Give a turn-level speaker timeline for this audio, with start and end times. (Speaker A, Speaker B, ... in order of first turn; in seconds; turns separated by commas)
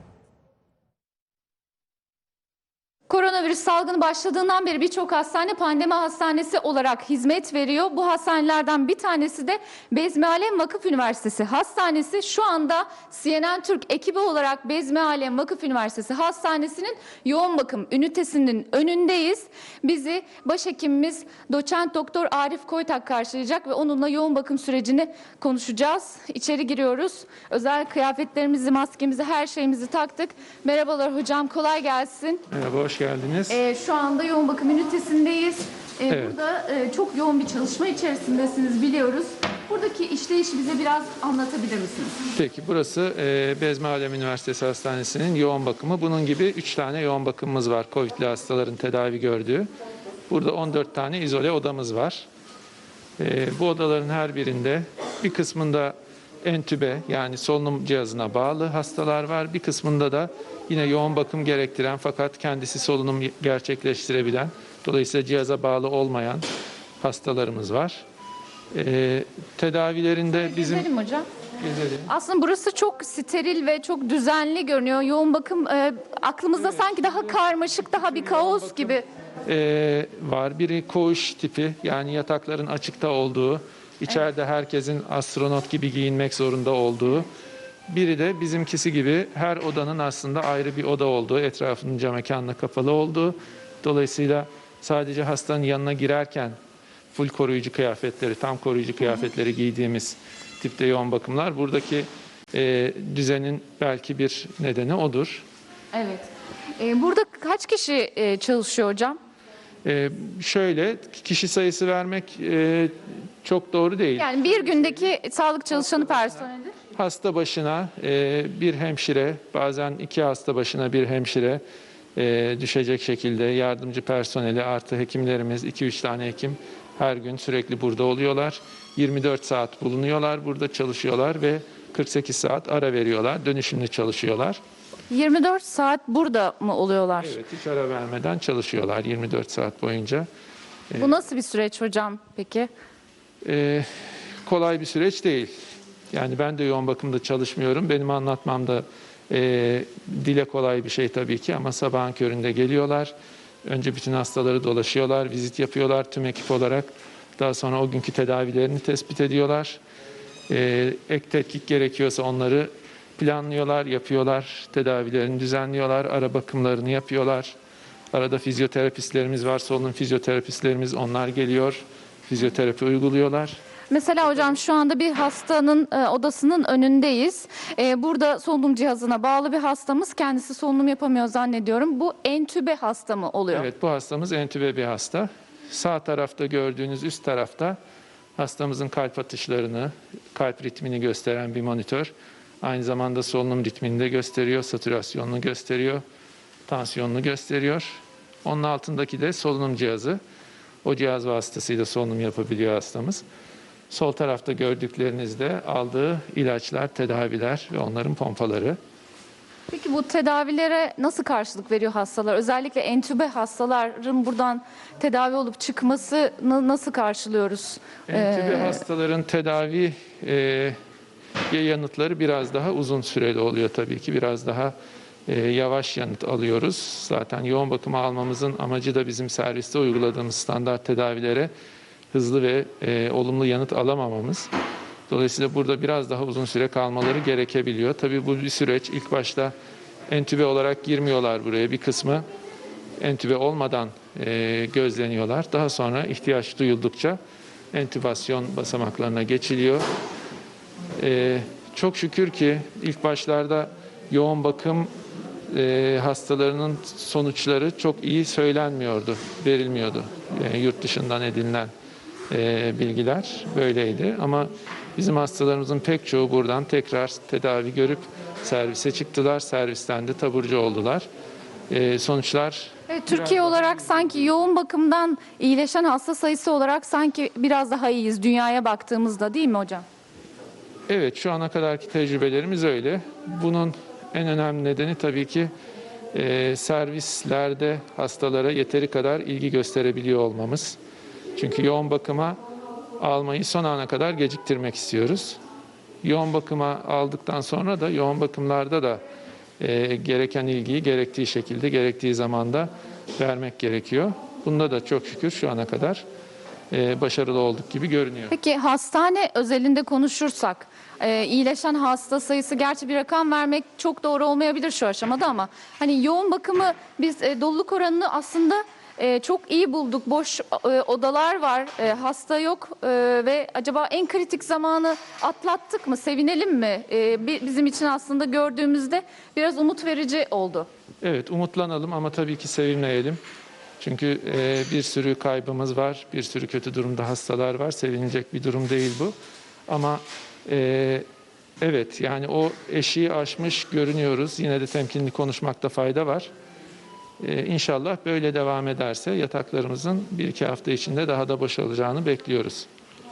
Speaker A: 3.1-32.4, Speaker B: 32.5-33.6, Speaker A: 33.5-42.2, Speaker B: 36.1-36.4, Speaker B: 42.3-49.7, Speaker B: 50.3-52.3, Speaker B: 53.2-66.5, Speaker B: 67.0-68.0, Speaker B: 68.7-70.9, Speaker A: 70.5-71.3, Speaker B: 71.6-72.1, Speaker A: 72.1-79.0, Speaker B: 78.2-78.9, Speaker B: 79.5-87.3, Speaker B: 87.9-96.5, Speaker B: 97.1-105.5, Speaker A: 105.9-109.2, Speaker B: 109.8-114.3, Speaker A: 114.2-116.7, Speaker B: 116.9-121.6, Speaker B: 122.1-134.6, Speaker A: 135.1-137.4, Speaker B: 137.2-140.3, Speaker A: 140.9-142.7, Speaker B: 143.4-143.9, Speaker B: 144.4-145.5, Speaker B: 146.1-153.1, Speaker B: 153.6-159.8, Speaker B: 160.5-167.6, Speaker B: 168.1-173.6, Speaker A: 173.9-183.7, Speaker B: 183.5-187.8, Speaker B: 188.4-196.0, Speaker B: 196.7-200.2, Speaker B: 200.8-203.2, Speaker B: 203.9-208.8, Speaker A: 209.7-218.8, Speaker B: 218.1-220.8, Speaker B: 221.5-224.7, Speaker B: 225.3-231.5, Speaker B: 232.1-234.5, Speaker B: 235.1-239.5, Speaker B: 240.1-242.2, Speaker B: 243.0-247.2, Speaker B: 247.7-249.8, Speaker B: 251.0-254.9, Speaker B: 255.5-261.7, Speaker B: 262.3-271.1, Speaker B: 271.7-274.3, Speaker A: 272.9-279.8, Speaker B: 280.9-285.5, Speaker B: 286.1-290.8, Speaker B: 291.4-292.4, Speaker B: 293.0-295.4, Speaker B: 296.0-299.0, Speaker B: 299.6-306.0, Speaker B: 306.7-308.3, Speaker A: 308.3-330.7, Speaker B: 331.0-333.2, Speaker B: 333.8-339.1, Speaker B: 339.7-341.0, Speaker B: 341.6-346.3, Speaker B: 347.2-352.7